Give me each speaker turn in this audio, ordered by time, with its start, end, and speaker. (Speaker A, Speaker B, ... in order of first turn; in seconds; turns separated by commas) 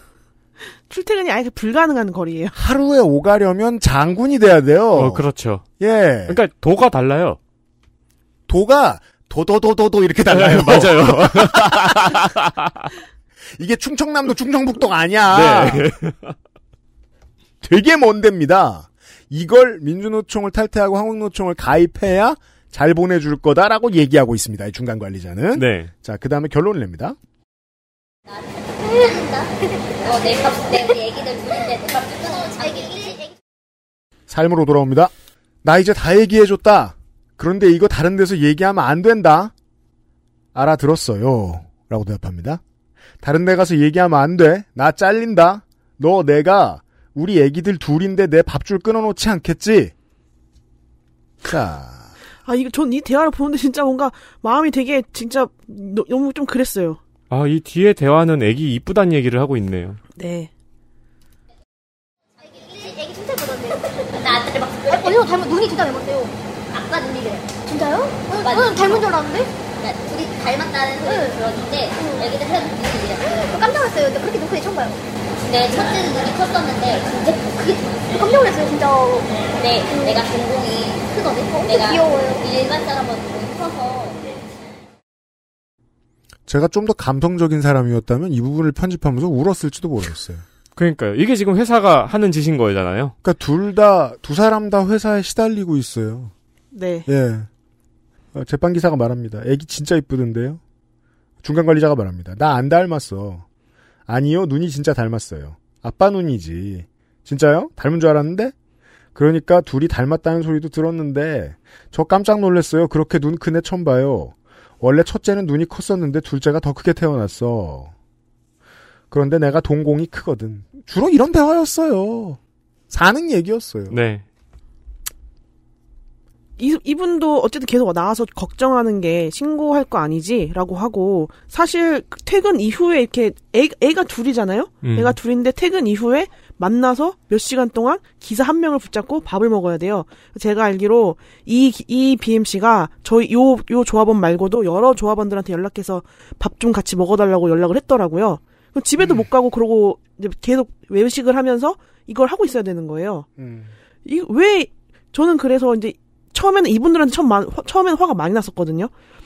Speaker A: 0.9-2.6, Speaker B: 2.5-5.2, Speaker C: 4.9-5.6, Speaker B: 5.8-6.4, Speaker C: 6.3-7.4, Speaker B: 8.5-12.3, Speaker C: 10.3-12.8, Speaker B: 13.6-15.9, Speaker C: 15.3-16.3, Speaker B: 17.6-27.2, Speaker C: 25.5-25.9, Speaker D: 28.3-33.1, Speaker E: 32.3-33.3, Speaker B: 34.3-35.1, Speaker B: 35.6-39.5, Speaker B: 40.5-42.6, Speaker B: 43.2-49.9, Speaker B: 51.4-52.1, Speaker A: 52.5-57.0, Speaker C: 57.3-60.0, Speaker A: 60.1-60.5, Speaker E: 62.4-64.3, Speaker D: 64.2-65.2, Speaker E: 64.9-66.3, Speaker D: 66.7-67.5, Speaker E: 67.6-69.5, Speaker D: 68.3-69.1, Speaker D: 69.8-73.4, Speaker E: 71.0-71.3, Speaker E: 72.0-72.3, Speaker E: 73.2-75.0, Speaker D: 75.4-78.0, Speaker E: 78.1-79.3, Speaker D: 79.5-84.2, Speaker E: 79.9-80.2, Speaker E: 81.2-82.4, Speaker B: 86.5-90.4, Speaker C: 90.8-93.1, Speaker B: 93.2-96.3, Speaker A: 96.7-97.1, Speaker B: 97.1-97.5, Speaker B: 98.3-100.6, Speaker B: 101.4-103.5, Speaker B: 104.1-108.5, Speaker B: 109.1-117.9, Speaker B: 119.1-122.4, Speaker B: 122.9-124.0, Speaker C: 123.9-124.2, Speaker A: 126.6-153.3, Speaker C: 134.8-135.2, Speaker B: 149.0-149.3, Speaker B: 153.4-153.7, Speaker A: 154.0-158.9